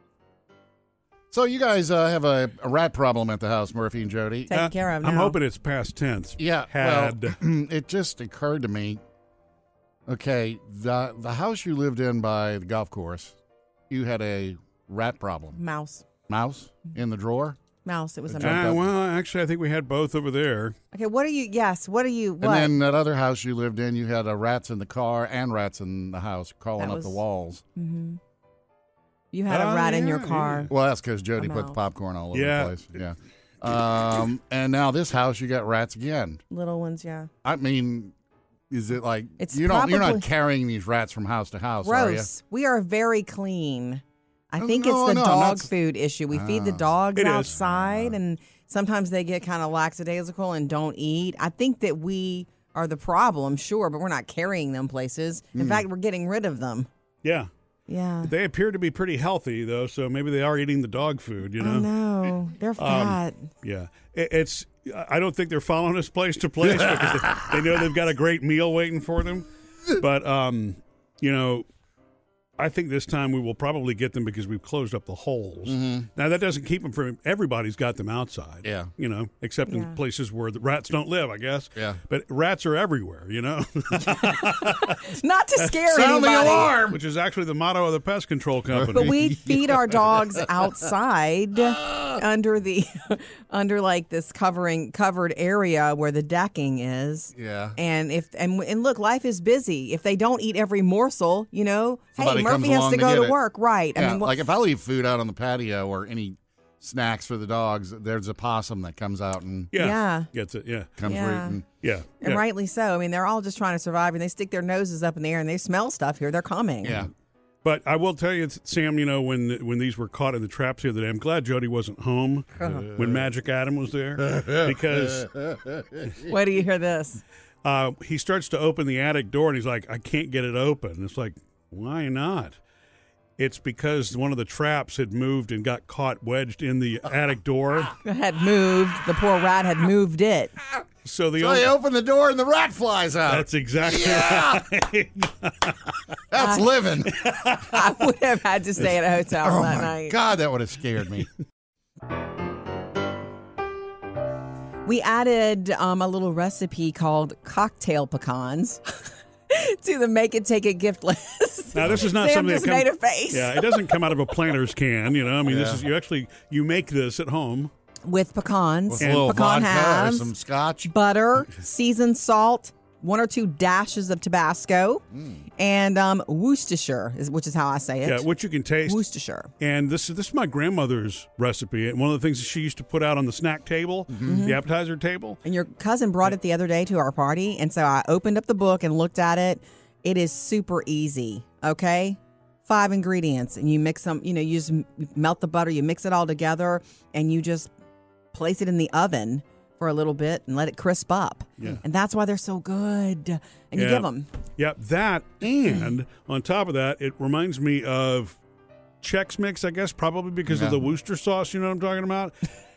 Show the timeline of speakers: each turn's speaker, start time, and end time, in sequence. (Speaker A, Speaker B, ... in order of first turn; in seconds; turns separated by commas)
Speaker A: 1.3-4.5, Speaker B: 4.5-5.4, Speaker C: 4.5-7.4, Speaker A: 6.4-9.0, Speaker A: 10.1-13.4, Speaker A: 13.9-15.6, Speaker B: 15.6-16.1, Speaker A: 16.3-17.6, Speaker B: 17.9-18.8, Speaker A: 18.3-18.8, Speaker C: 18.4-20.8, Speaker B: 20.9-22.7, Speaker A: 22.4-27.6, Speaker B: 26.8-27.2, Speaker B: 27.8-28.2, Speaker B: 29.3-30.7, Speaker C: 29.5-30.7, Speaker A: 30.7-36.4, Speaker B: 31.4-31.8, Speaker C: 32.3-32.8, Speaker B: 36.5-37.3, Speaker A: 37.4-38.1, Speaker A: 38.7-42.3, Speaker B: 39.4-40.3, Speaker B: 41.8-56.9, Speaker A: 44.6-45.7, Speaker A: 46.3-46.9, Speaker C: 47.1-47.5, Speaker A: 47.5-48.2, Speaker A: 55.5-55.9, Speaker C: 57.2-57.5, Speaker B: 57.9-58.3, Speaker C: 58.2-61.9, Speaker B: 61.6-63.3, Speaker C: 62.8-71.7, Speaker C: 72.6-84.9, Speaker A: 75.7-76.1, Speaker A: 78.6-78.9, Speaker B: 79.7-80.0, Speaker B: 84.6-86.8, Speaker A: 85.9-87.0, Speaker C: 86.0-89.1, Speaker A: 88.7-90.8, Speaker B: 88.9-104.3, Speaker A: 97.3-97.8, Speaker A: 102.2-103.4, Speaker A: 103.9-109.7, Speaker C: 109.7-110.9, Speaker B: 109.8-110.3, Speaker A: 111.0-111.7, Speaker B: 111.0-111.6, Speaker C: 111.8-112.4, Speaker B: 112.2-117.0, Speaker A: 116.8-117.1, Speaker C: 117.6-125.3, Speaker A: 122.7-123.0, Speaker A: 124.3-126.0, Speaker B: 126.2-127.2, Speaker C: 127.6-132.6, Speaker C: 133.4-137.9, Speaker B: 138.0-140.5, Speaker C: 141.1-141.7, Speaker A: 141.4-144.6, Speaker C: 143.3-145.9, Speaker A: 146.3-147.1, Speaker B: 146.4-146.7, Speaker C: 147.2-147.7, Speaker B: 147.6-150.2, Speaker A: 148.8-151.3, Speaker B: 154.8-159.0, Speaker B: 159.5-164.1, Speaker C: 161.7-167.7, Speaker A: 165.5-165.8, Speaker B: 168.1-170.3, Speaker A: 168.9-170.9, Speaker C: 169.0-169.4, Speaker B: 170.8-175.0, Speaker A: 175.1-175.4, Speaker B: 175.6-178.3, Speaker C: 178.0-179.0, Speaker B: 178.9-179.5, Speaker C: 179.6-185.4, Speaker A: 184.1-184.4, Speaker B: 184.2-184.6, Speaker B: 185.4-197.7, Speaker B: 198.3-204.3, Speaker C: 203.8-208.4, Speaker C: 209.0-212.3, Speaker A: 210.5-210.8